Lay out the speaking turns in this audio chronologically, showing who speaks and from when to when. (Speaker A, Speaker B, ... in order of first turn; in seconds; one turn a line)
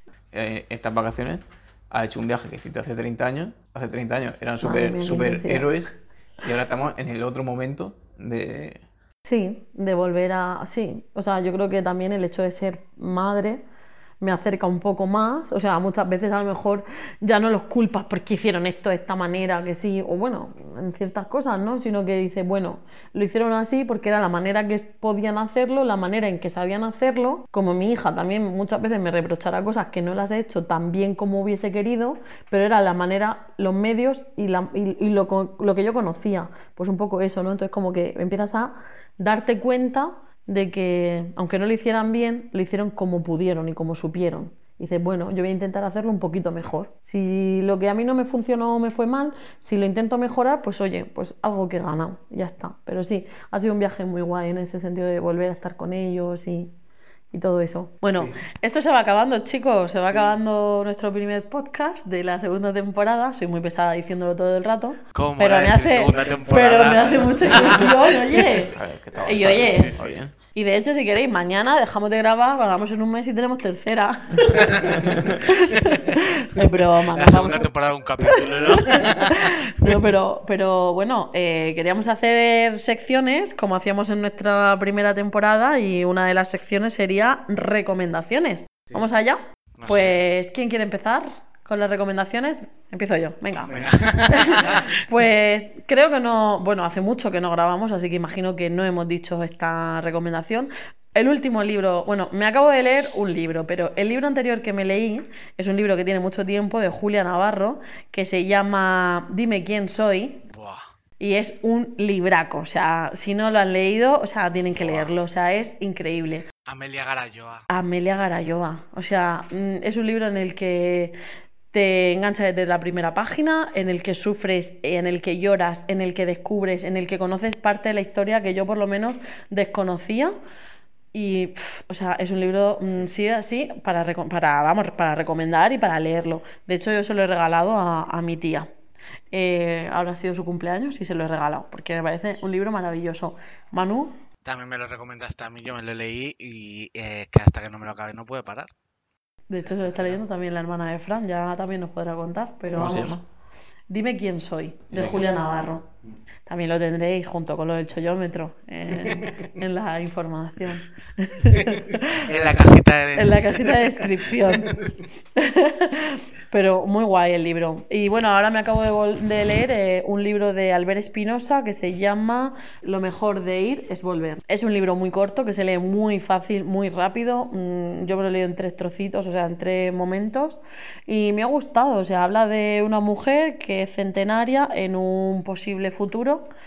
Speaker A: 0.3-8.8
Speaker B: 4.6-5.7
Speaker B: 9.2-13.6
Speaker B: 14.2-56.7
Speaker B: 57.3-70.0
Speaker C: 65.1-68.2
Speaker A: 68.5-70.3
Speaker C: 69.2-70.2
Speaker B: 70.5-77.7
Speaker C: 74.5-76.2
Speaker C: 77.1-80.1
Speaker B: 78.3-110.4
Speaker C: 89.8-90.2
Speaker C: 93.7-94.9
Speaker C: 110.5-110.8
Speaker B: 111.2-116.5
Speaker C: 114.7-115.1
Speaker C: 116.7-117.7
Speaker B: 117.7-121.2
Speaker B: 121.7-130.3
Speaker B: 131.1-138.7
Speaker B: 139.3-144.2
Speaker C: 144.4-148.7
Speaker B: 149.5-153.2
Speaker C: 149.7-150.2
Speaker A: 152.7-153.2
Speaker B: 153.9-155.8
Speaker C: 155.0-155.4
Speaker B: 156.5-162.3
Speaker C: 159.1-159.4
Speaker C: 161.6-164.9
Speaker B: 163.2-164.8
Speaker B: 165.4-186.5